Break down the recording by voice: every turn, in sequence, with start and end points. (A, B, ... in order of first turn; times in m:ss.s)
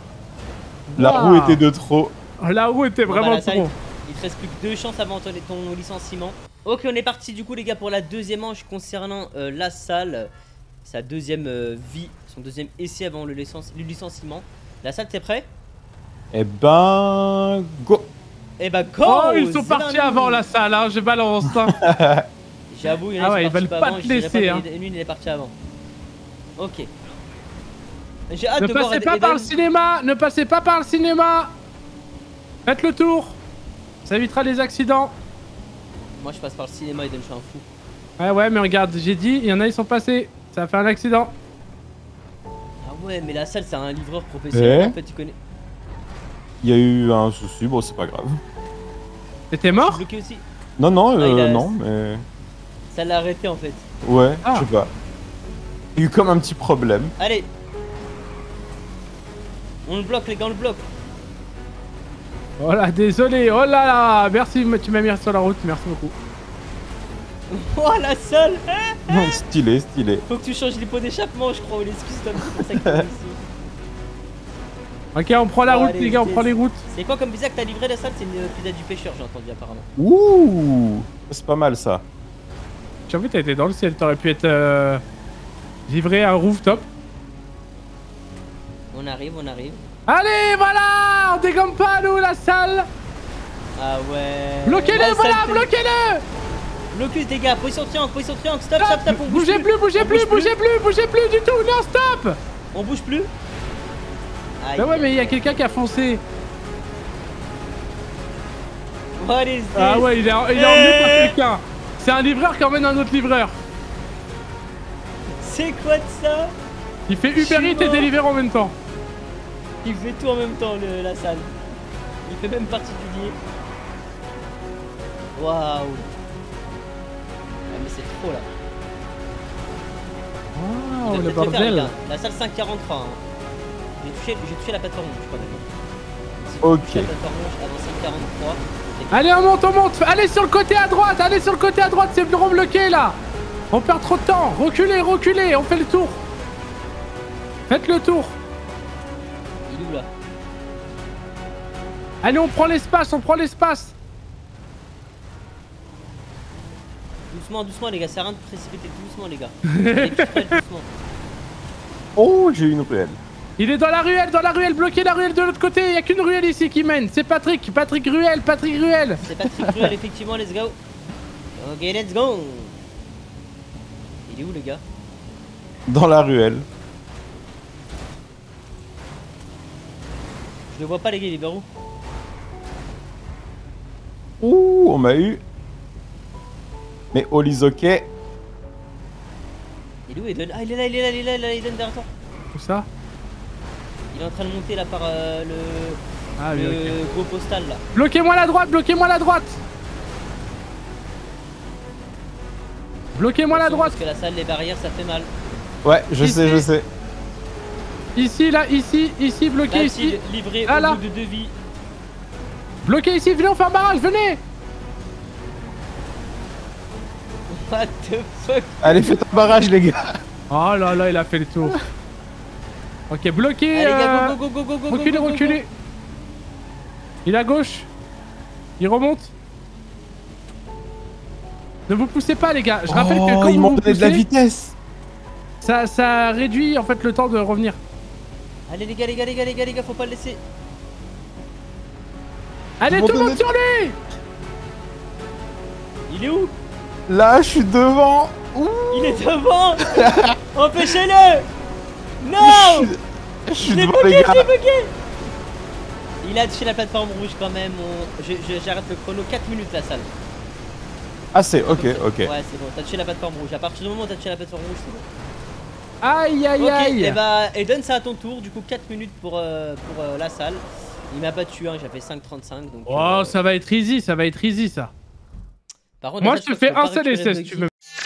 0:00.9-0:01.6 A
0:01.0-0:02.1 B
0:02.4-0:03.7 A
0:03.1-0:10.3 C
0:10.8-0:15.5 C
0:16.3-0:18.1 B
0:18.6-0:20.4 C
0:19.1-0:21.8 A
0:21.5-0:22.3 B
0:22.7-0:25.5 C
0:23.2-0:24.6 A
0:26.6-0:26.9 C
0:28.3-0:29.5 C
0:28.6-0:31.5 A
0:32.6-0:33.4 A
0:34.0-0:35.1 A
0:36.2-0:37.6 C
0:38.2-0:41.3 A
0:42.8-0:45.4 C
0:44.5-0:44.9 B
0:46.6-0:48.4 B
0:49.5-0:50.0 A
0:49.7-0:50.4 C
0:50.8-0:52.2 B
0:51.2-0:51.7 C
0:52.9-0:53.9 C
0:54.0-0:54.9 B
0:56.0-0:57.1 B
0:57.2-0:57.5 C
0:59.9-1:00.8 C
1:02.6-1:06.1 A
1:07.5-1:09.3 C
1:09.1-1:10.2 B
1:10.3-1:13.4 C
1:12.6-1:13.0 B
1:15.1-1:16.8 A
1:15.6-1:19.9 C
1:20.0-1:22.0 B
1:23.1-1:25.0 A
1:25.9-1:26.8 A
1:28.9-1:29.8 C
1:30.1-1:32.9 A
1:33.8-1:35.7 C
1:34.6-1:36.2 A
1:36.9-1:40.5 C
1:38.8-1:42.4 A
1:42.7-1:43.3 C
1:44.6-1:45.7 C
1:44.8-1:46.2 A
1:49.2-1:51.4 C
1:49.8-1:53.6 A
1:55.3-1:56.5 C
1:57.1-1:58.8 A
1:57.4-1:58.1 C
1:59.8-2:01.6 C
2:02.3-2:03.4 C
2:05.4-2:06.1 C
2:07.7-2:08.5 C
2:10.6-2:11.9 A
2:11.0-2:13.2 C
2:14.0-2:15.7 C
2:16.4-2:19.5 C
2:16.6-2:17.1 B
2:19.1-2:23.2 A
2:23.7-2:26.2 A
2:27.7-2:28.4 A
2:29.7-2:30.1 C
2:32.2-2:33.9 A
2:37.3-2:40.9 C
2:39.8-2:40.1 A
2:42.2-2:43.2 B
2:43.6-2:49.9 A
2:49.2-2:50.8 C
2:51.6-2:52.8 C
2:54.3-2:54.8 C
2:55.9-2:56.6 B
3:00.7-3:01.6 C
3:04.4-3:05.4 B
3:07.1-3:08.1 B
3:10.1-3:12.1 C
3:12.5-3:12.9 A
3:14.1-3:16.0 C
3:16.4-3:17.0 A
3:16.5-3:17.8 C
3:17.9-3:19.6 A
3:23.1-3:24.0 A
3:23.5-3:25.3 C
3:25.8-3:26.9 B
3:26.2-3:26.6 A
3:28.2-3:31.0 A
3:29.7-3:31.6 C
3:32.8-3:34.4 A
3:37.5-3:39.4 C
3:38.8-3:40.2 B
3:40.5-3:41.8 A
3:43.1-3:44.4 A
3:43.7-3:45.6 C
3:44.9-3:45.7 A
3:47.3-3:47.9 A
3:48.8-3:49.3 A
3:51.9-3:54.2 A
3:52.9-3:54.8 B
3:55.6-3:57.8 A
3:58.7-4:00.4 C
4:02.8-4:04.0 A
4:02.9-4:03.4 B
4:06.1-4:06.5 C
4:07.1-4:09.2 B
4:08.9-4:09.9 C
4:09.8-4:10.4 B
4:10.5-4:11.5 C
4:12.2-4:12.9 C
4:12.4-4:14.5 B
4:13.6-4:14.9 C
4:16.2-4:20.1 C
4:21.3-4:22.3 B
4:21.7-4:25.1 C
4:26.0-4:27.2 A
4:26.6-4:33.4 C
4:32.9-4:34.9 A
4:36.0-4:37.7 C
4:36.2-4:37.7 A